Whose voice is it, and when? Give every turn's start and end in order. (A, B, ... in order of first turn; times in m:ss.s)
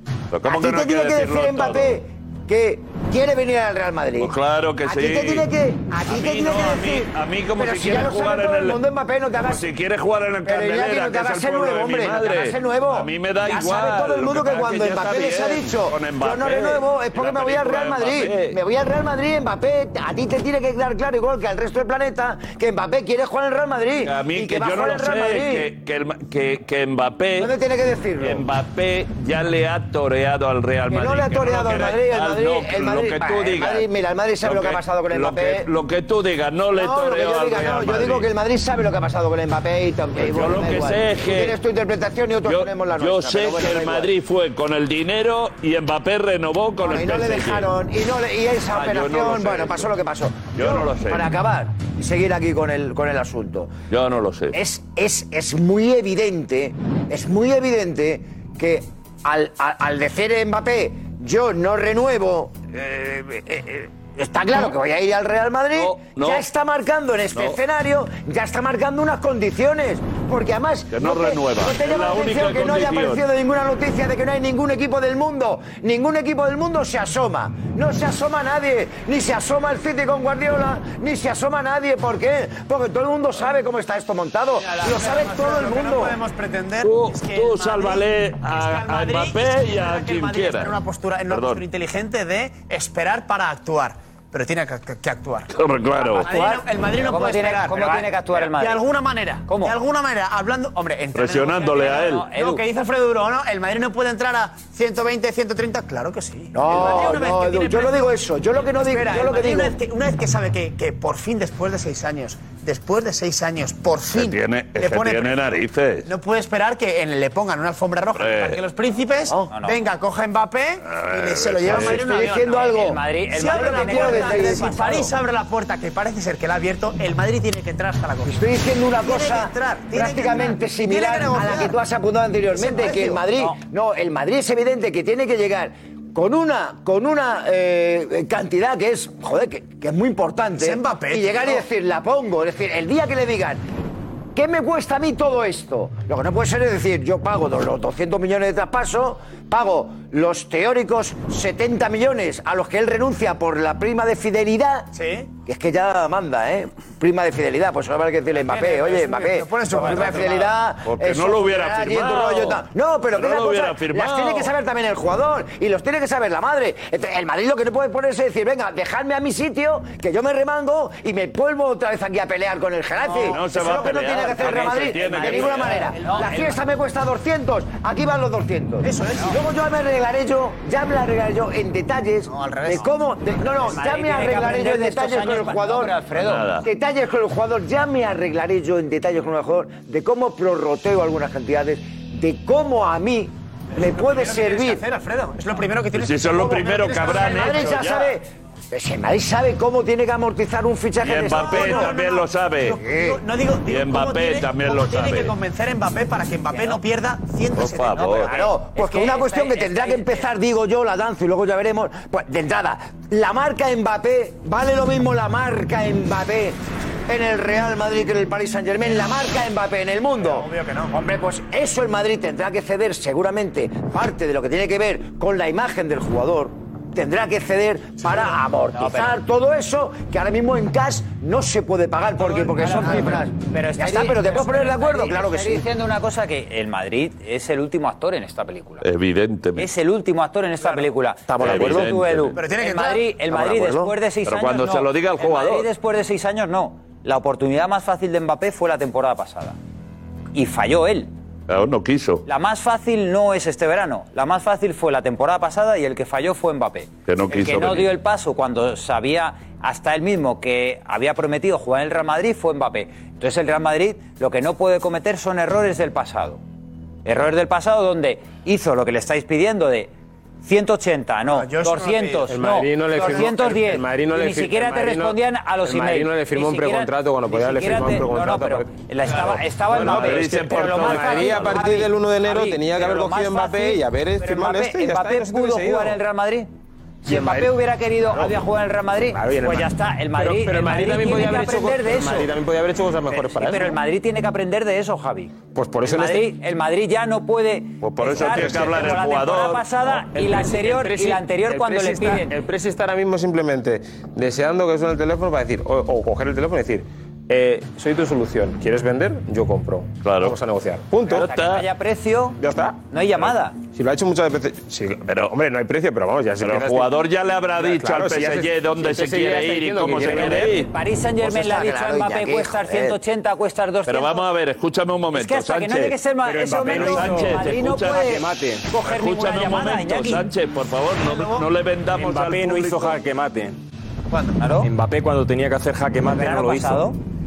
0:00.3-0:02.0 A
0:00.4-0:09.7 B
0:04.2-0:05.5 A
0:06.0-0:08.8 A
0:09.4-0:18.6 A
0:10.4-0:25.7 B
0:24.0-0:27.5 A
0:27.4-0:28.5 B
0:28.2-0:33.9 A
0:30.9-0:35.7 B
0:34.4-0:38.3 A
0:36.7-0:44.1 B
0:40.2-0:41.6 A
0:42.4-0:47.7 A
0:46.8-0:53.8 B
0:48.7-0:49.9 A
0:50.5-0:51.3 A
0:53.9-0:54.6 A
0:54.5-1:26.2 B
1:05.7-1:06.5 A
1:07.3-1:07.6 A
1:10.9-1:13.2 A
1:24.6-1:55.4 C
1:26.8-1:30.8 A
1:31.3-1:31.7 A
1:35.5-1:36.3 A
1:36.2-1:38.8 D
1:39.5-1:39.8 D
1:41.2-1:42.3 A
1:41.8-1:42.6 D
1:46.5-1:49.8 B
1:54.1-1:56.1 A
1:56.0-2:02.7 C
1:58.2-1:58.6 A
1:59.5-1:59.8 D
2:00.8-2:02.0 A
2:01.7-2:04.8 B
2:02.2-2:05.1 D
2:03.3-2:11.8 C
2:08.2-2:23.6 B
2:12.5-2:13.5 C
2:20.6-2:21.6 C
2:24.4-2:34.9 B
2:34.9-2:35.3 C
2:35.5-3:06.0 B
2:38.4-2:40.6 C
2:40.8-2:44.5 A
2:53.0-2:54.1 C
2:53.2-2:55.9 A
2:54.4-2:56.6 D
2:56.0-2:56.4 C
2:58.8-2:59.4 C
3:02.3-3:02.9 C
3:03.6-3:06.5 D
3:06.1-3:06.7 A
3:06.6-3:14.8 B
3:13.8-3:17.9 C
3:15.9-3:18.2 A
3:17.1-3:21.9 B
3:21.0-3:22.8 A
3:21.3-3:28.3 C
3:22.8-3:23.2 B
3:23.7-3:25.4 A
3:26.5-3:26.8 D
3:27.6-3:28.3 A
3:27.9-3:30.3 D
3:28.3-3:55.7 B
3:40.2-3:41.0 C
3:48.0-3:49.2 D
3:52.2-3:53.2 C
3:52.6-3:58.8 D
3:58.8-3:59.7 A
3:59.6-4:09.6 D
4:01.4-4:02.4 A
4:02.4-4:03.1 C
4:03.4-4:03.8 B
4:04.2-4:05.7 A
4:10.3-4:11.1 D
4:11.5-4:12.2 A
4:12.2-4:26.4 D
4:17.1-4:17.9 A
4:27.0-4:29.9 D
4:30.4-4:46.5 D
4:31.3-4:32.4 C
4:32.3-4:46.0 E
4:39.1-4:41.7 A
4:47.0-4:52.3 D
4:47.0-4:47.5 E
4:49.1-4:53.8 E
4:53.1-4:55.3 D
4:55.5-4:56.3 E
4:55.9-5:02.3 D
4:57.8-5:00.0 A
4:58.1-4:58.8 E
5:00.1-5:11.2 E
5:10.0-5:10.4 A
5:11.1-5:11.7 A
5:11.2-5:13.6 D
5:12.4-5:12.8 E
5:13.7-5:17.0 E
5:16.4-5:20.7 A
5:17.6-5:20.5 E
5:20.0-5:24.2 D
5:21.2-5:23.0 B
5:23.9-5:26.0 A
5:25.1-5:30.2 D
5:26.2-5:28.7 F
5:26.7-5:28.2 A
5:27.8-5:28.2 B
5:28.8-5:33.0 A
5:31.0-5:31.5 C
5:31.9-5:33.6 F
5:34.1-5:34.4 C
5:34.4-5:34.7 D
5:34.6-5:36.9 F
5:36.1-5:37.0 D